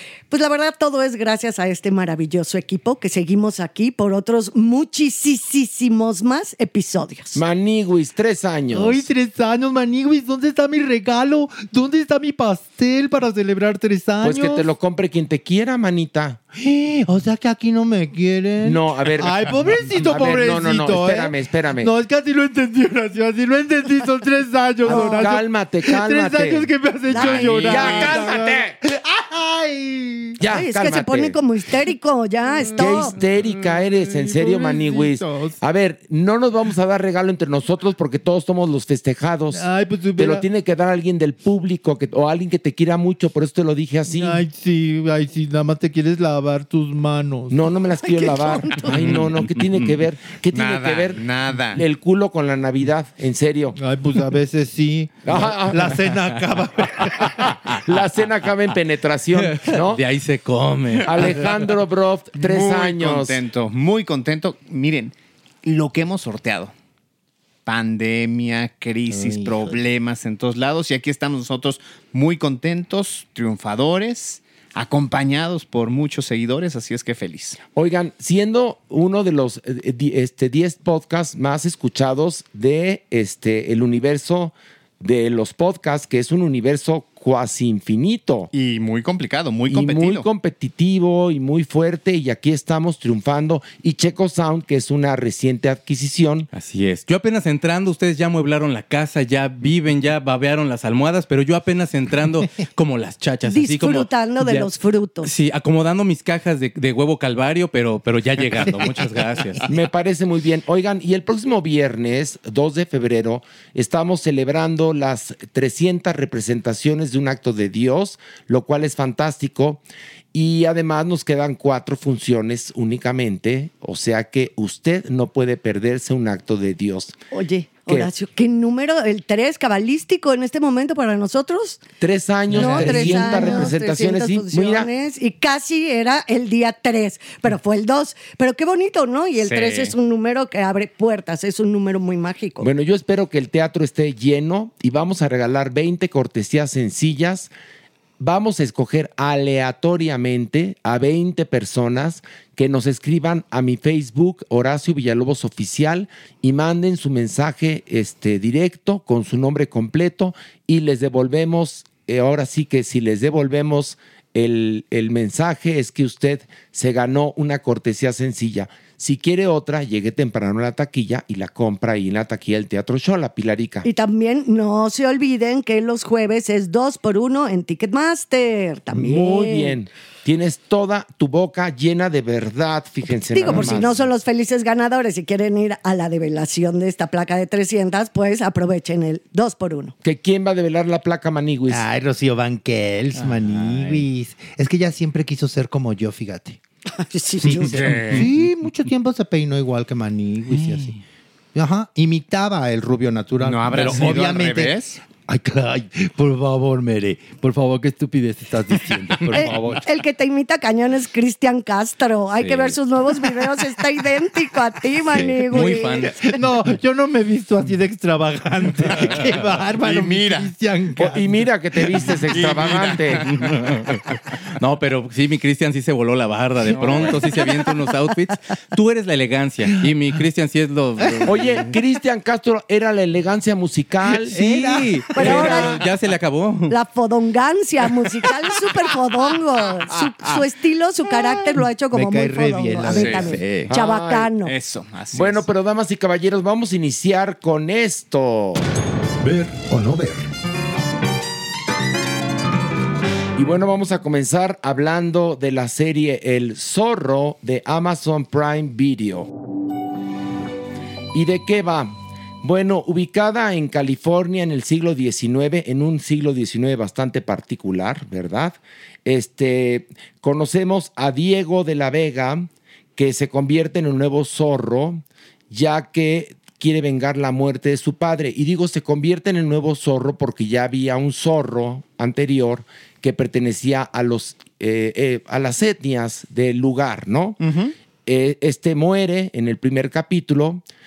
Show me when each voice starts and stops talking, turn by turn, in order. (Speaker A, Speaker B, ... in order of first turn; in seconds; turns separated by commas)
Speaker A: 0.3-7.4, Speaker B: 7.3-9.1, Speaker C: 8.7-14.7, Speaker B: 14.2-16.4, Speaker C: 16.6-30.4, Speaker B: 18.6-21.9, Speaker B: 24.8-28.7, Speaker A: 24.9-25.3, Speaker A: 27.1-28.2, Speaker B: 30.4-31.4, Speaker A: 30.5-33.1, Speaker C: 32.5-35.6, Speaker B: 32.8-44.4, Speaker C: 39.5-40.5, Speaker C: 44.1-47.6, Speaker B: 47.5-53.8, Speaker C: 48.1-48.9, Speaker D: 49.0-49.7, Speaker E: 50.5-51.8, Speaker C: 53.8-57.5, Speaker B: 55.2-56.1, Speaker F: 55.8-56.7, Speaker B: 57.2-60.0, Speaker D: 59.4-61.5, Speaker B: 61.0-63.4, Speaker E: 62.4-66.7, Speaker E: 67.7-77.6, Speaker F: 69.1-69.7, Speaker B: 77.8-88.5, Speaker E: 88.5-90.2, Speaker B: 89.7-96.5, Speaker D: 96.5-104.7, Speaker A: 103.5-105.3, Speaker D: 105.2-109.7, Speaker B: 109.7-119.8, Speaker B: 120.3-127.1, Speaker A: 127.3-131.8, Speaker B: 132.0-134.9, Speaker A: 132.5-142.7, Speaker E: 132.6-133.4, Speaker E: 139.4-139.9, Speaker B: 142.6-147.5, Speaker B: 148.2-173.9, Speaker A: 173.8-179.8, Speaker B: 178.9-184.1, Speaker A: 183.3-189.9, Speaker B: 190.0-191.8, Speaker F: 191.7-196.6, Speaker A: 197.0-197.8, Speaker F: 197.4-200.9, Speaker E: 197.7-198.3, Speaker D: 200.5-201.0, Speaker F: 201.5-209.8, Speaker E: 203.4-205.0, Speaker C: 207.9-209.8, Speaker A: 209.3-216.0, Speaker D: 215.5-216.2, Speaker F: 216.2-216.7, Speaker C: 216.3-221.1, Speaker F: 217.7-221.1, Speaker E: 219.8-220.5, Speaker B: 220.9-223.3, Speaker E: 222.3-223.2, Speaker D: 223.3-231.6, Speaker E: 226.8-227.1, Speaker B: 231.2-234.4, Speaker D: 234.3-236.8, Speaker F: 234.3-234.9, Speaker A: 235.1-235.8, Speaker A: 236.7-244.5, Speaker E: 239.9-240.3, Speaker F: 241.9-243.7, Speaker E: 242.9-243.4, Speaker B: 243.7-244.3, Speaker E: 244.4-245.4, Speaker B: 245.1-248.6, Speaker C: 249.2-249.6, Speaker F: 249.6-250.2, Speaker B: 253.4-259.3, Speaker B: 261.1-287.4, Speaker E: 287.4-287.7, Speaker B: 288.1-290.6